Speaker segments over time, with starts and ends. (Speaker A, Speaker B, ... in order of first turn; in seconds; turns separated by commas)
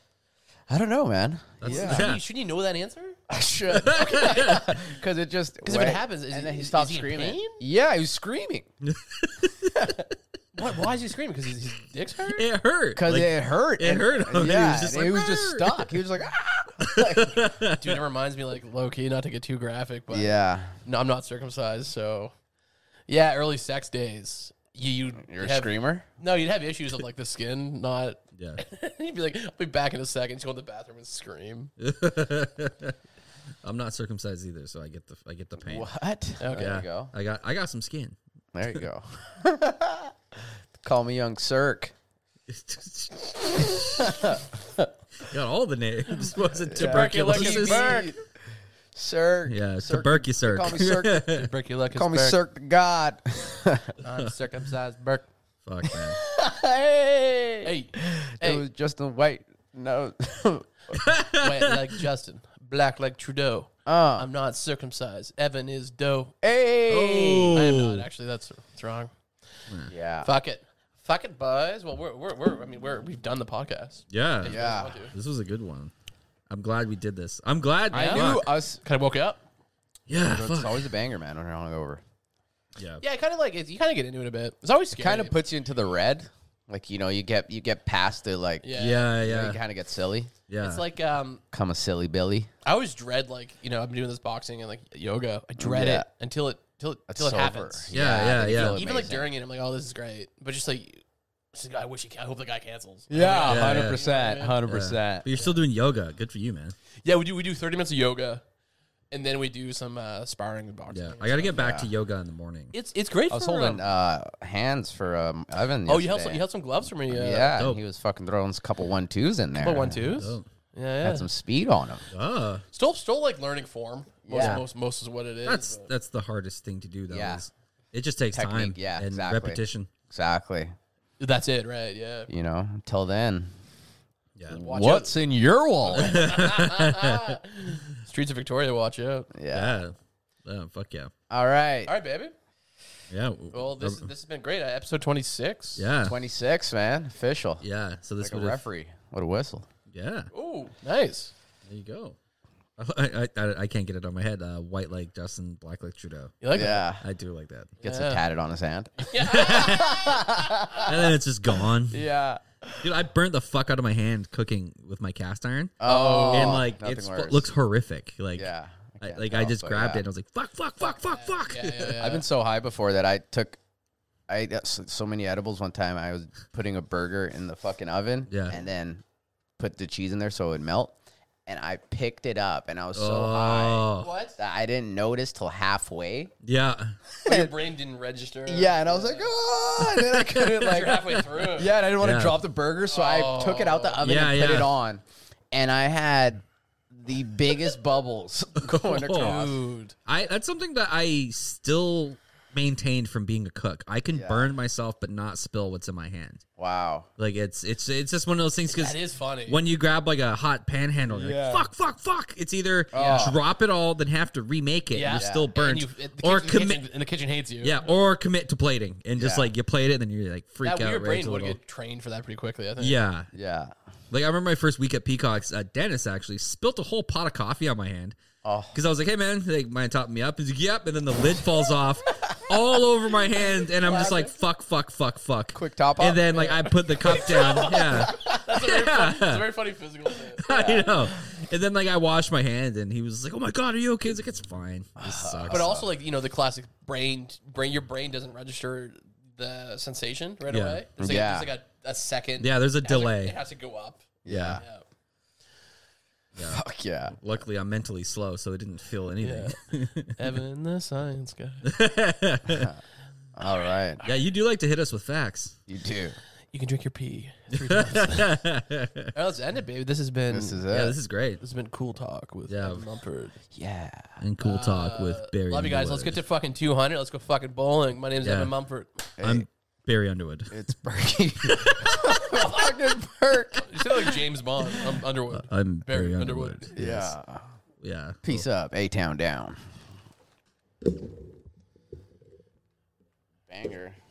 Speaker A: 0.7-2.1, Speaker B: 1.6-2.2, Speaker C: 1.6-3.2, Speaker A: 3.3-8.7, Speaker B: 3.7-4.7, Speaker C: 3.9-4.8, Speaker C: 5.6-7.6, Speaker B: 8.8-9.9, Speaker A: 9.6-10.1, Speaker C: 10.5-12.4, Speaker B: 12.3-15.9, Speaker A: 12.9-17.5, Speaker B: 16.8-18.0, Speaker C: 17.6-22.3, Speaker A: 20.1-20.7, Speaker C: 23.1-31.7, Speaker A: 25.2-26.1, Speaker B: 28.4-28.6, Speaker B: 31.8-32.9, Speaker B: 33.6-35.9, Speaker A: 35.6-37.1, Speaker C: 36.4-36.8, Speaker B: 36.5-38.1, Speaker A: 38.5-40.1, Speaker A: 40.8-41.9, Speaker B: 42.5-44.4, Speaker A: 44.0-44.8, Speaker B: 45.2-48.0, Speaker C: 46.7-48.1, Speaker A: 46.7-48.1, Speaker A: 48.9-51.3, Speaker B: 49.5-51.5, Speaker C: 51.3-52.4, Speaker A: 51.9-53.9, Speaker C: 54.0-55.3, Speaker B: 55.6-56.2, Speaker A: 55.9-61.0, Speaker C: 57.6-58.6, Speaker B: 60.9-61.7, Speaker C: 61.3-66.3, Speaker A: 63.9-64.3, Speaker A: 66.4-67.6, Speaker B: 66.9-68.1, Speaker C: 67.5-69.1, Speaker A: 69.9-70.3, Speaker C: 70.2-75.1, Speaker B: 74.1-74.6, Speaker A: 74.4-75.0, Speaker B: 75.1-75.9, Speaker B: 76.5-78.5, Speaker A: 77.9-78.8, Speaker C: 77.9-79.4, Speaker B: 80.1-80.9, Speaker A: 80.2-82.0, Speaker B: 82.8-83.0, Speaker C: 83.0-85.3, Speaker A: 85.0-90.3, Speaker C: 88.6-89.1, Speaker B: 88.7-89.6, Speaker B: 90.5-90.8, Speaker C: 90.6-91.4, Speaker A: 91.5-92.5, Speaker C: 92.6-97.9, Speaker A: 95.6-96.1, Speaker A: 97.1-99.3, Speaker B: 97.9-98.8, Speaker C: 98.5-104.6, Speaker A: 103.1-105.3, Speaker B: 103.4-104.0, Speaker B: 104.6-106.7, Speaker C: 107.0-108.4, Speaker C: 109.1-111.5, Speaker B: 110.9-112.7, Speaker A: 111.4-111.9, Speaker C: 112.7-113.8, Speaker A: 113.3-116.5, Speaker C: 115.8-117.6, Speaker A: 117.1-120.2, Speaker C: 119.6-121.3, Speaker B: 120.0-120.4, Speaker A: 121.0-122.0, Speaker B: 122.1-122.6, Speaker C: 122.7-125.9, Speaker A: 124.2-124.6, Speaker B: 124.4-124.7, Speaker B: 125.5-129.9, Speaker A: 127.1-127.4, Speaker A: 128.3-130.7, Speaker C: 131.2-132.3, Speaker A: 132.3-133.5, Speaker A: 134.5-136.5, Speaker C: 134.5-135.2, Speaker C: 135.8-139.3, Speaker B: 135.9-137.4, Speaker A: 139.3-139.7, Speaker B: 139.5-139.9, Speaker B: 140.4-141.1, Speaker A: 141.3-141.9, Speaker C: 141.8-142.3, Speaker B: 143.1-144.1, Speaker C: 143.5-145.9, Speaker B: 145.8-146.2, Speaker A: 146.0-147.6, Speaker B: 147.6-148.6, Speaker A: 148.2-149.7, Speaker B: 149.9-150.3, Speaker C: 150.3-151.3, Speaker B: 151.7-152.2, Speaker B: 152.8-156.4, Speaker C: 156.4-156.8, Speaker A: 156.5-157.0, Speaker B: 157.0-157.8, Speaker C: 157.8-158.2, Speaker A: 157.8-161.1, Speaker C: 159.0-161.1, Speaker B: 159.2-160.2, Speaker B: 160.8-162.0, Speaker A: 161.9-162.4, Speaker B: 162.8-165.8, Speaker A: 165.8-167.5, Speaker C: 165.8-166.6, Speaker B: 166.3-172.0, Speaker A: 168.3-170.0, Speaker C: 170.8-172.2, Speaker A: 172.0-173.6, Speaker A: 174.3-179.0, Speaker B: 178.3-178.6, Speaker A: 179.6-180.9, Speaker A: 181.4-186.3, Speaker B: 182.9-184.1, Speaker C: 184.0-184.4, Speaker B: 186.4-187.0, Speaker A: 187.1-187.5, Speaker C: 187.2-189.3, Speaker A: 188.4-199.6, Speaker B: 189.8-190.9, Speaker C: 190.6-191.8, Speaker B: 192.0-192.4, Speaker C: 192.9-194.0, Speaker B: 194.0-194.7, Speaker B: 198.6-199.4, Speaker C: 199.1-199.9, Speaker B: 200.1-206.4, Speaker A: 204.1-204.6, Speaker A: 206.6-207.1, Speaker B: 207.2-216.9, Speaker C: 208.7-209.6, Speaker A: 211.1-211.7, Speaker A: 212.9-213.4, Speaker C: 212.9-213.3, Speaker C: 214.9-217.9, Speaker A: 215.1-215.5, Speaker B: 217.6-221.6, Speaker A: 219.2-219.5, Speaker C: 220.6-223.0, Speaker B: 222.8-223.3, Speaker A: 223.3-223.7, Speaker B: 224.1-228.2, Speaker A: 228.4-228.8, Speaker B: 228.7-239.5, Speaker C: 233.6-234.3, Speaker A: 235.5-236.4, Speaker C: 236.3-240.8, Speaker A: 237.9-238.3, Speaker B: 240.4-245.8, Speaker A: 240.5-241.1, Speaker A: 245.0-245.9, Speaker C: 245.5-254.8, Speaker B: 250.5-250.8, Speaker A: 251.0-251.5, Speaker B: 252.4-253.4, Speaker A: 254.2-254.6, Speaker B: 254.3-254.6, Speaker B: 256.4-260.1, Speaker A: 256.4-257.1, Speaker C: 259.2-261.6, Speaker B: 261.6-262.7, Speaker A: 262.4-262.8, Speaker A: 263.4-264.0, Speaker B: 264.0-265.6, Speaker A: 265.7-266.1, Speaker C: 266.5-268.4, Speaker B: 267.6-269.1, Speaker C: 269.1-270.6, Speaker A: 270.3-271.0, Speaker B: 270.7-271.4, Speaker C: 271.4-273.4, Speaker B: 272.5-272.9, Speaker A: 273.5-274.2, Speaker B: 274.2-276.2, Speaker C: 274.4-279.0, Speaker B: 278.2-278.5, Speaker A: 279.2-279.4, Speaker B: 279.2-280.6, Speaker A: 280.5-284.2, Speaker B: 281.4-282.2, Speaker C: 282.3-282.6, Speaker C: 283.6-286.7, Speaker B: 285.3-287.1, Speaker A: 286.8-287.5, Speaker B: 287.8-288.4, Speaker A: 288.2-289.6, Speaker A: 293.5-294.0